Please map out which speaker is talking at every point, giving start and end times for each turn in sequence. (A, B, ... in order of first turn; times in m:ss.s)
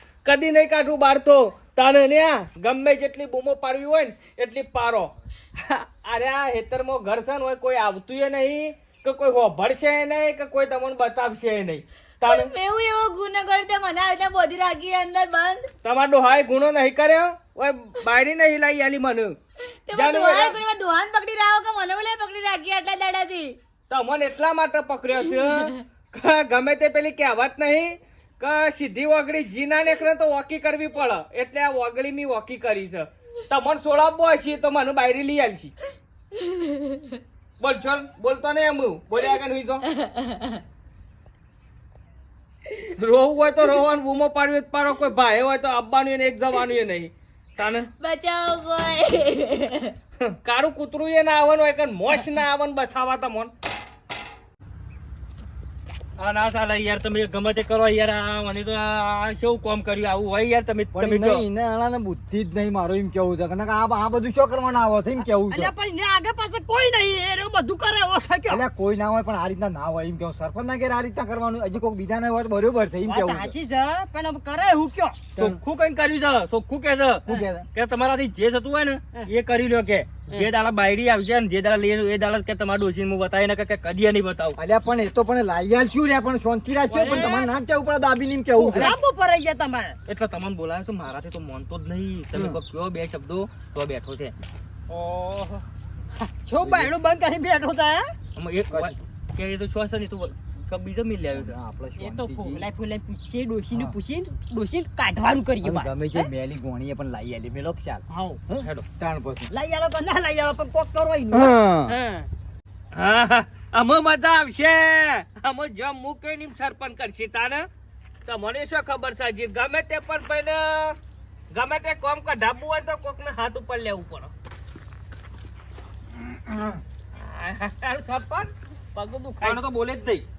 0:00.2-0:11.8 A
0:12.2-0:15.7 B
0:15.8-0:19.4 A
0:19.8-0:23.6 B
0:20.0-0:20.6 A
0:23.9-0:35.7 A
0:25.3-0:25.7 B
0:37.6-0:39.8 A
0:39.9-0:40.6 B
0:42.8-0:47.9 A
0:48.0-0:50.0 B
0:50.2-0:53.5 A
0:56.2-1:01.4 C
1:00.9-1:05.7 D
1:05.2-1:08.6 E
1:08.5-1:13.6 D
1:13.1-1:15.3 E
1:15.4-1:24.6 C
1:17.3-1:17.7 D
1:24.6-1:29.0 D
1:27.0-1:27.5 E
1:27.1-1:27.3 C
1:28.6-1:30.0 E
1:30.1-1:34.3 C
1:32.3-1:32.6 D
1:34.9-1:35.6 E
1:36.2-1:38.1 E
1:38.4-1:41.6 C
1:38.7-1:39.0 D
1:41.3-1:42.7 D
1:42.0-1:46.3 E
1:45.6-1:49.5 D
1:48.1-1:48.4 E
1:48.6-1:48.9 C
1:49.5-1:52.3 E
1:51.3-1:52.0 D
1:52.9-1:57.7 A
1:58.3-2:01.0 A
2:01.5-2:04.3 A
2:06.3-2:06.8 D
2:07.1-2:08.5 A
2:09.0-2:09.6 E
2:09.4-2:10.3 C